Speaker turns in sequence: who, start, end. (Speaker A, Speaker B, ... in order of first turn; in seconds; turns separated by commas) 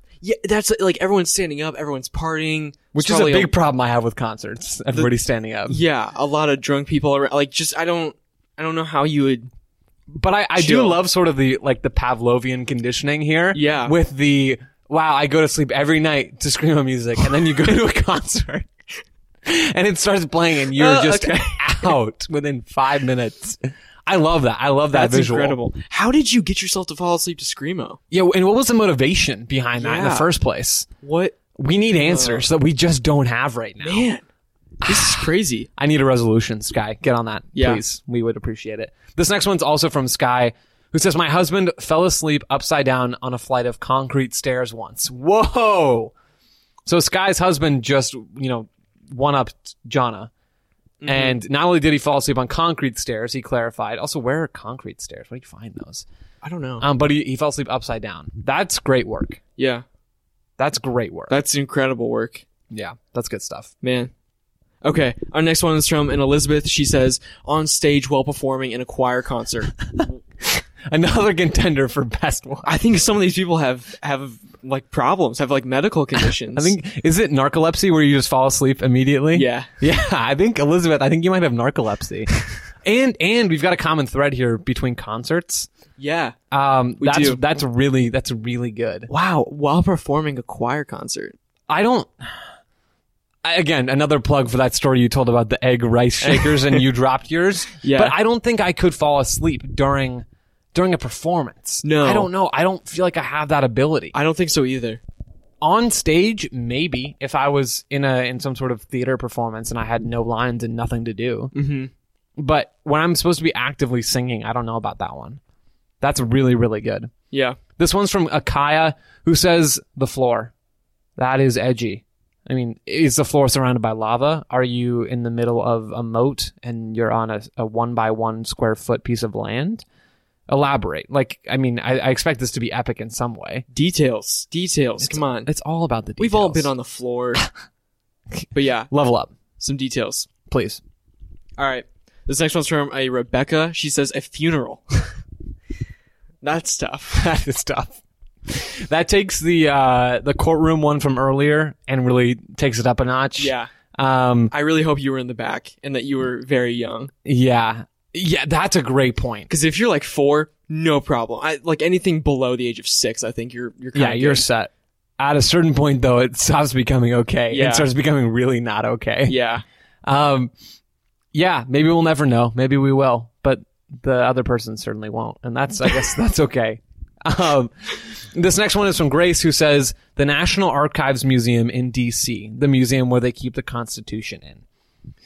Speaker A: 0.2-3.5, Speaker B: 2.9-5.8, Speaker A: 5.7-9.5, Speaker B: 10.1-18.7, Speaker A: 10.6-11.0, Speaker A: 13.5-13.9, Speaker B: 19.4-25.6, Speaker A: 20.7-21.9, Speaker A: 24.9-28.0, Speaker B: 28.1-30.9, Speaker A: 29.8-30.3, Speaker A: 31.0-31.4, Speaker B: 31.5-34.1, Speaker A: 32.0-32.5, Speaker A: 33.8-34.2, Speaker A: 34.8-35.7, Speaker B: 34.8-46.1, Speaker A: 37.5-37.8, Speaker B: 46.9-50.3, Speaker A: 51.0-51.4, Speaker B: 51.0-56.0, Speaker A: 56.4-56.9, Speaker B: 56.8-59.4, Speaker A: 59.6-59.8, Speaker B: 60.6-61.4, Speaker A: 61.3-62.4, Speaker B: 62.7-63.7, Speaker A: 63.8-64.1, Speaker A: 64.8-69.7, Speaker B: 69.8-72.8, Speaker A: 72.6-76.8, Speaker B: 76.5-82.3, Speaker A: 79.3-79.7, Speaker B: 82.8-85.7, Speaker A: 86.0-86.3, Speaker B: 86.5-89.1, Speaker A: 87.0-87.4, Speaker A: 89.1-91.3, Speaker B: 91.7-92.3, Speaker B: 93.4-104.1, Speaker A: 96.2-96.8, Speaker A: 97.8-98.2, Speaker A: 101.8-102.3, Speaker A: 104.1-105.0, Speaker B: 105.6-111.5, Speaker A: 111.5-111.9, Speaker B: 112.4-115.4, Speaker B: 116.0-117.1, Speaker A: 117.3-117.6, Speaker B: 117.8-120.5, Speaker B: 121.2-129.8, Speaker B: 130.5-133.7, Speaker A: 133.7-135.5, Speaker B: 135.0-136.7, Speaker A: 136.2-137.5, Speaker B: 138.4-139.3, Speaker A: 138.5-138.9, Speaker A: 139.6-140.3, Speaker B: 140.5-140.8, Speaker A: 141.6-145.2, Speaker A: 146.4-147.3, Speaker B: 147.1-154.5, Speaker A: 153.4-153.7, Speaker A: 154.5-157.1, Speaker B: 157.2-159.5, Speaker A: 159.5-164.5, Speaker B: 163.9-169.3, Speaker A: 167.5-167.9, Speaker A: 169.3-169.6, Speaker B: 170.0-170.5, Speaker B: 171.3-184.6